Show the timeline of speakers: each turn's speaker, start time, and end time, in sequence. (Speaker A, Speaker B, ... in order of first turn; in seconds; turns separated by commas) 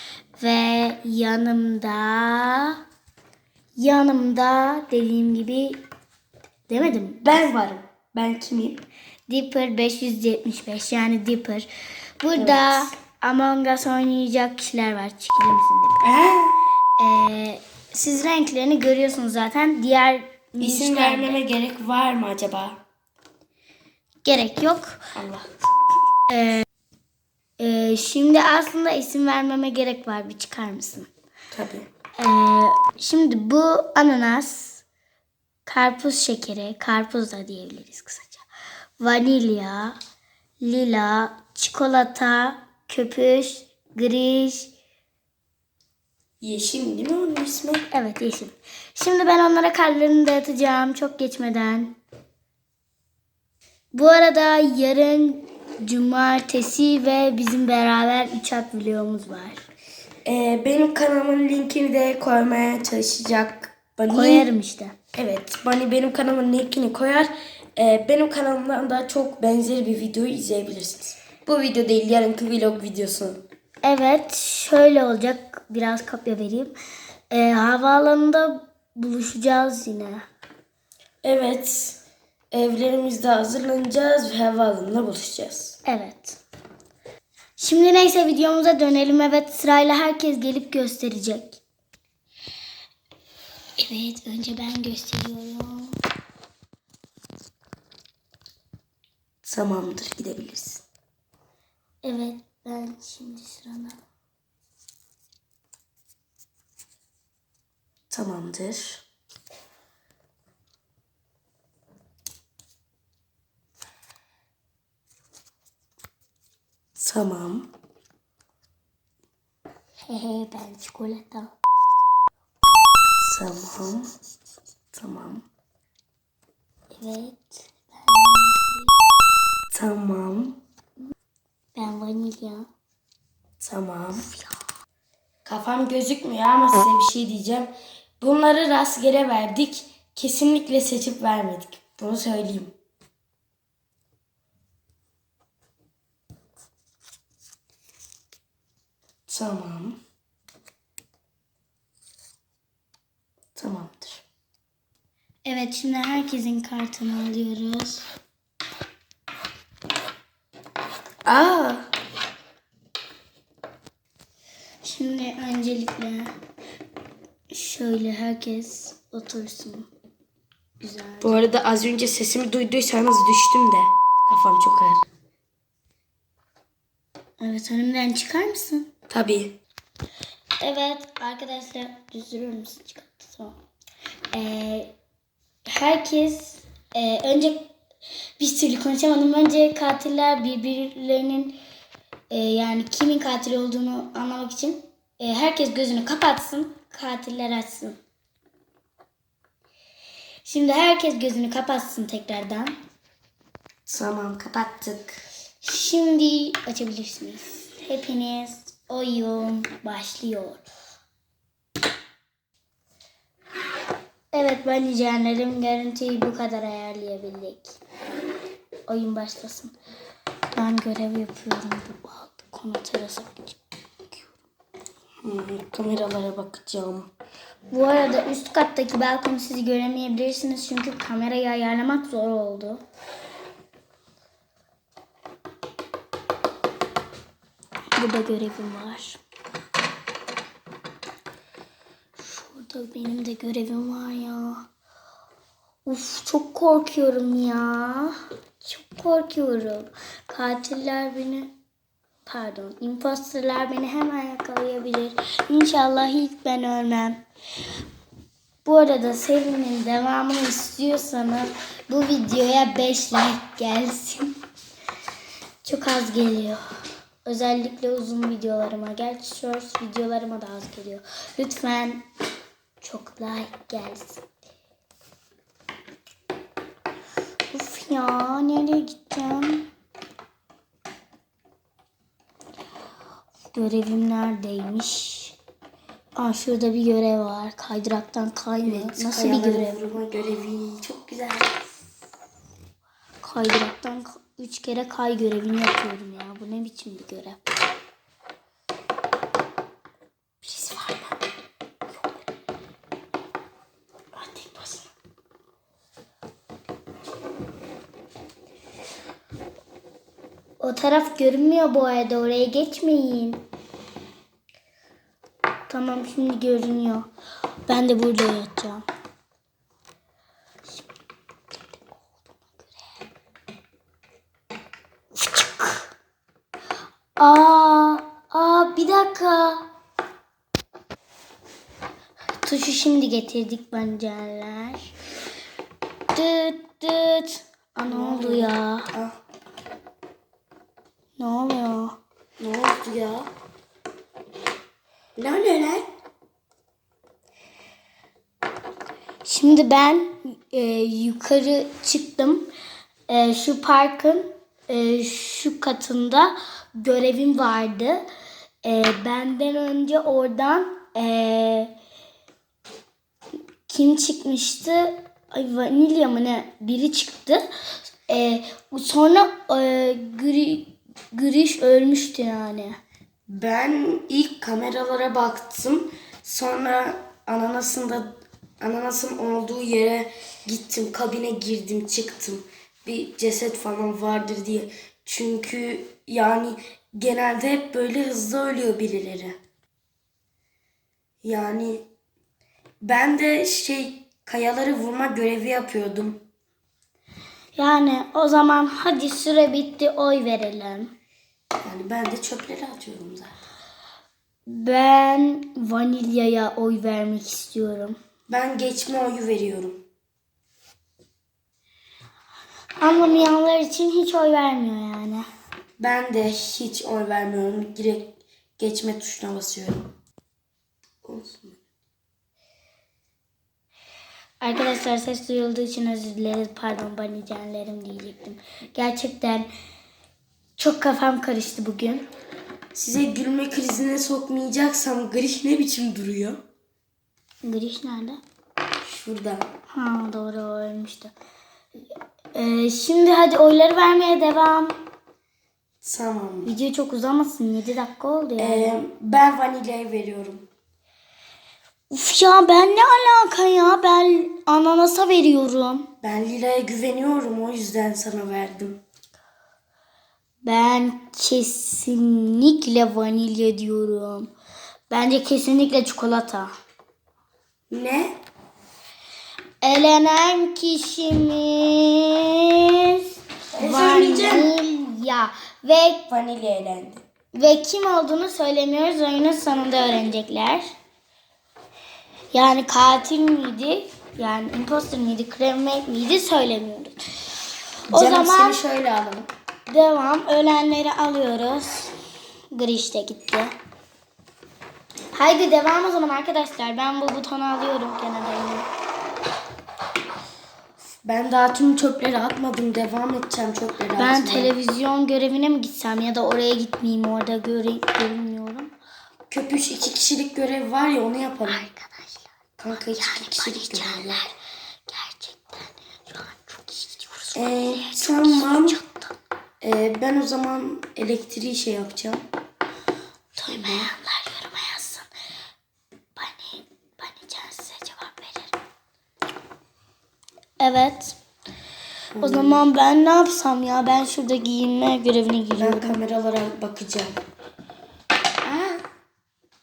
Speaker A: 0.4-2.8, Speaker A: 3.8-5.8, Speaker A: 6.7-7.3, Speaker B: 7.2-8.8, Speaker A: 9.3-11.7, Speaker A: 12.2-16.0, Speaker B: 12.3-12.9, Speaker B: 16.0-16.6, Speaker A: 17.0-21.4, Speaker B: 20.6-22.8, Speaker A: 24.2-25.0, Speaker B: 25.1-25.6, Speaker A: 26.3-26.6, Speaker A: 27.6-31.1, Speaker B: 31.5-31.9, Speaker A: 32.2-34.8, Speaker A: 35.6-38.4, Speaker A: 39.0-40.0, Speaker A: 40.6-44.7, Speaker B: 46.4-47.9, Speaker A: 47.9-51.9, Speaker A: 53.9-59.6, Speaker B: 60.2-64.5, Speaker A: 64.1-64.9, Speaker B: 65.1-73.4, Speaker A: 73.8-76.7, Speaker A: 77.3-80.2, Speaker B: 81.2-82.0, Speaker B: 82.5-85.8, Speaker A: 85.8-86.4, Speaker A: 87.6-91.6, Speaker A: 93.8-96.0, Speaker B: 99.4-100.8, Speaker A: 102.0-104.0, Speaker B: 108.1-109.0, Speaker B: 117.0-117.7, Speaker A: 120.0-121.5, Speaker B: 123.2-124.1, Speaker B: 124.9-125.4, Speaker A: 127.0-129.0, Speaker B: 129.7-130.6, Speaker A: 131.7-132.7, Speaker B: 133.6-134.2, Speaker A: 134.2-134.5, Speaker B: 135.4-142.7, Speaker B: 149.3-150.0, Speaker B: 153.6-154.2, Speaker A: 155.4-158.0, Speaker B: 161.2-161.9, Speaker A: 164.8-166.3, Speaker A: 167.5-169.9, Speaker A: 170.8-171.4, Speaker B: 171.2-175.1, Speaker A: 177.4-178.9, Speaker B: 179.1-179.6, Speaker A: 180.6-183.6, Speaker A: 184.3-184.9, Speaker A: 185.7-187.7, Speaker A: 188.4-191.6, Speaker A: 192.3-198.0, Speaker A: 200.4-202.7, Speaker B: 203.9-205.2, Speaker A: 205.6-210.7, Speaker A: 214.3-217.8, Speaker A: 218.9-219.7, Speaker A: 220.5-223.6, Speaker B: 225.2-227.1, Speaker A: 227.7-232.8, Speaker A: 237.9-239.2, Speaker A: 242.2-244.7, Speaker A: 245.8-251.5, Speaker A: 252.2-257.2, Speaker A: 258.6-264.3, Speaker A: 265.6-266.6, Speaker A: 267.2-272.0, Speaker A: 272.8-274.2, Speaker A: 277.5-279.7, Speaker A: 283.5-285.4, Speaker A: 286.1-289.9, Speaker B: 288.6-291.6, Speaker A: 293.2-297.5, Speaker A: 300.4-301.2, Speaker A: 304.1-304.9, Speaker A: 310.6-313.4, Speaker A: 315.7-317.1, Speaker A: 317.7-318.8, Speaker A: 325.1-325.9, Speaker A: 327.2-329.6, Speaker A: 332.4-334.9, Speaker A: 336.1-338.9, Speaker B: 337.9-339.2, Speaker A: 341.2-342.0, Speaker B: 342.4-343.3, Speaker B: 345.1-345.9, Speaker A: 349.2-352.5, Speaker A: 353.1-358.0, Speaker A: 358.6-361.7, Speaker A: 363.7-367.4, Speaker A: 368.1-372.8, Speaker B: 373.3-389.4, Speaker B: 391.2-391.9, Speaker B: 392.8-396.2, Speaker A: 397.5-400.9, Speaker B: 401.6-403.3, Speaker A: 404.4-408.0, Speaker B: 408.3-409.8, Speaker A: 412.8-415.3, Speaker B: 415.8-419.9, Speaker B: 421.0-421.6, Speaker A: 424.4-429.5, Speaker A: 430.6-432.1, Speaker B: 432.7-436.4, Speaker A: 437.4-438.2, Speaker B: 438.8-439.5, Speaker A: 439.7-441.1, Speaker A: 442.3-444.8, Speaker B: 445.8-446.5, Speaker A: 446.4-448.8, Speaker B: 448.4-450.5, Speaker A: 451.9-455.9, Speaker B: 456.0-458.8, Speaker A: 460.4-464.3, Speaker A: 464.9-466.5, Speaker B: 467.7-468.2, Speaker A: 469.6-473.0, Speaker B: 473.5-474.5, Speaker A: 473.6-476.0, Speaker B: 476.1-477.0, Speaker A: 477.3-480.6, Speaker A: 482.3-487.0, Speaker B: 487.9-489.3, Speaker A: 487.9-488.6, Speaker A: 489.7-491.9, Speaker A: 492.5-493.5, Speaker A: 495.1-498.7, Speaker B: 501.0-504.5, Speaker A: 504.0-508.7, Speaker B: 509.3-511.6, Speaker A: 511.5-514.3, Speaker B: 512.6-514.3, Speaker A: 514.9-519.1, Speaker B: 517.3-518.8, Speaker B: 519.6-522.2, Speaker A: 523.4-525.1, Speaker B: 523.5-523.9, Speaker A: 526.1-528.5, Speaker A: 530.6-531.2, Speaker B: 532.1-532.6, Speaker A: 532.2-536.0, Speaker B: 535.6-537.2, Speaker A: 538.5-538.8